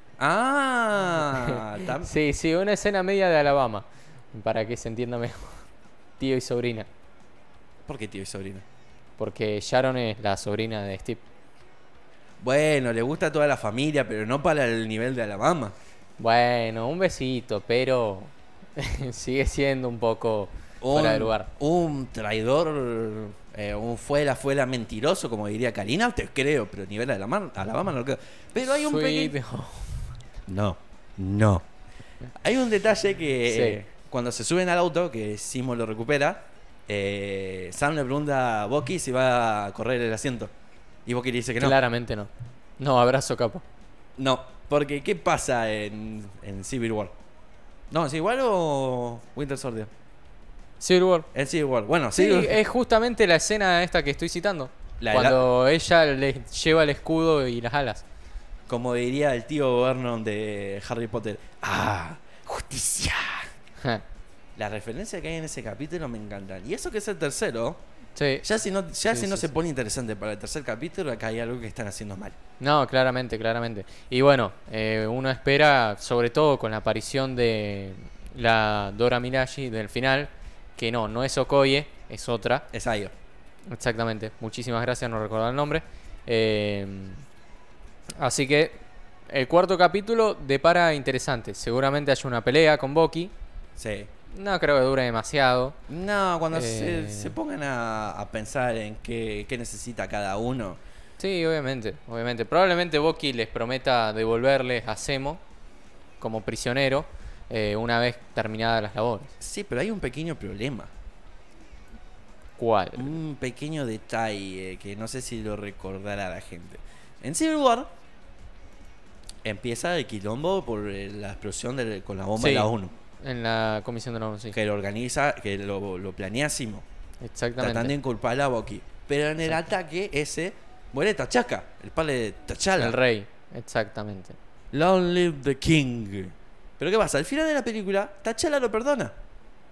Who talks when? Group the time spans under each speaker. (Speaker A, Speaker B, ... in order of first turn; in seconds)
Speaker A: 0.2-2.1, 7.8-8.6, 12.4-15.7, 20.8-29.3, 30.5-31.6, 32.4-40.5, 41.0-41.8, 44.2-47.1, 47.9-49.9, 51.3-52.6, 55.0-55.4, 58.7-63.5, 64.5-67.8, 68.4-72.3, 82.7-83.1, 93.8-94.1, 95.9-100.8, 109.4-110.9, 113.0-117.9, 119.4-122.9, 124.5-126.8, 127.6-132.9, 134.7-139.1
Speaker B: 1.3-5.7, 6.2-6.9, 9.2-11.2, 16.2-21.5, 28.6-30.1, 33.5-33.8, 41.6-43.6, 50.8-51.3, 52.1-58.0, 68.2-68.5, 69.1-69.5, 72.6-82.7, 83.7-87.2, 88.2-93.3, 94.3-95.8, 96.5-97.3, 101.2-105.4, 106.2-109.3, 112.6-113.2, 122.4-122.7, 123.2-124.5, 127.2-127.9, 132.8-134.4